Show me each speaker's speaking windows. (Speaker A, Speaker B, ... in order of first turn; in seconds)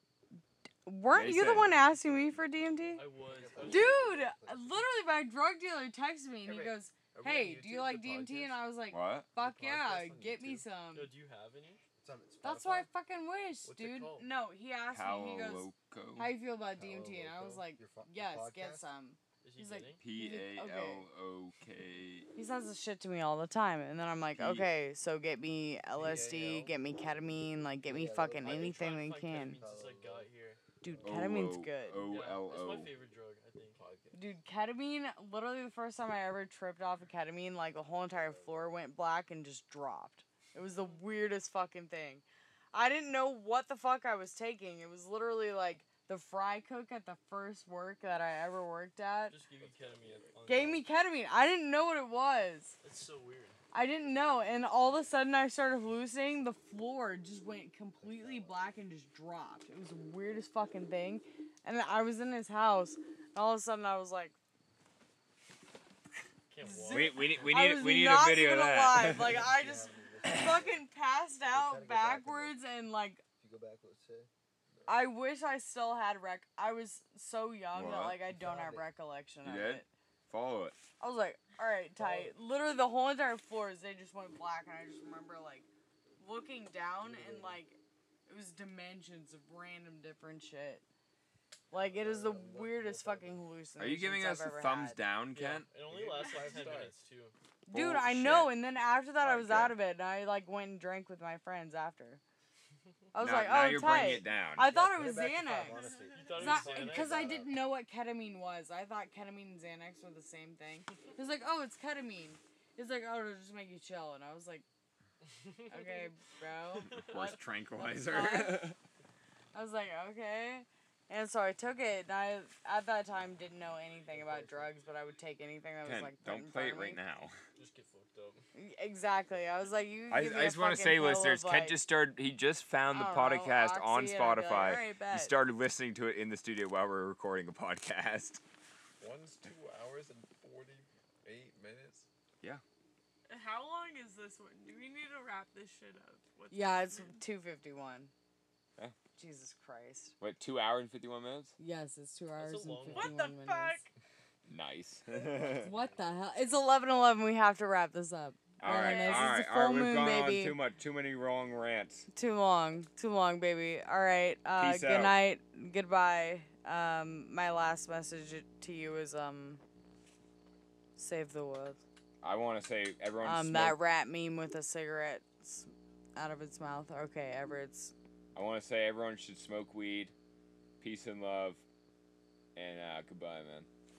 Speaker A: 0.8-3.0, 3.6-11.1, 12.4-21.1, 22.3-29.6, 30.8-32.1, 34.1-49.4, 50.5-52.8, 53.7-64.3, 66.6-73.2, 74.9-79.9, 81.0-85.7, 86.2-90.8, 91.7-95.0, 97.7-102.2, 103.1-114.6, 115.7-117.2, 118.0-118.7, 119.5-127.0, 128.5-131.8, 132.9-135.4, 146.5-148.1, 149.2-150.1, 151.6-153.8, 155.6-160.6, 162.1-169.6, 171.0-171.8, 173.2-177.9
Speaker B: 1.1-1.8, 8.9-9.3, 14.9-16.3, 20.0-22.3, 24.4-24.7, 31.0-32.9, 66.9-69.4, 77.7-78.2, 79.4-80.8, 93.8-95.7, 97.7-98.6, 99.2-99.8, 103.2-104.7, 116.9-118.8, 125.8-127.3, 130.1-138.4, 150.2-151.5, 154.4-155.7, 158.6-162.1, 164.6-165.2, 172.2-173.8, 178.3-180.1, 180.8-181.6, 182.5-183.7
Speaker C: 1.7-4.9, 12.0-12.9, 16.2-18.8, 27.8-30.0, 58.0-58.7, 69.1-70.9, 71.5-72.6, 73.4-74.3, 78.2-78.9, 82.0-82.3, 87.0-87.5, 104.6-107.5, 124.1-124.7
Speaker D: 3.0-4.1, 10.9-11.8, 19.4-20.0, 28.4-30.6, 32.0-33.8, 49.3-50.8, 52.8-53.6, 66.5-67.8, 95.3-97.3, 105.7-107.5, 115.4-116.1, 116.9-117.4, 127.5-128.4, 152.4-153.7
Speaker E: 6.4-8.7, 9.3-10.7, 13.6-14.3, 25.9-26.8, 29.7-30.3, 33.7-34.3, 49.5-50.5, 74.7-75.0, 91.7-93.4, 95.8-97.0, 106.5-107.0, 139.0-142.1
Speaker F: 105.7-106.2, 143.3-147.1, 152.9-153.9, 158.7-159.3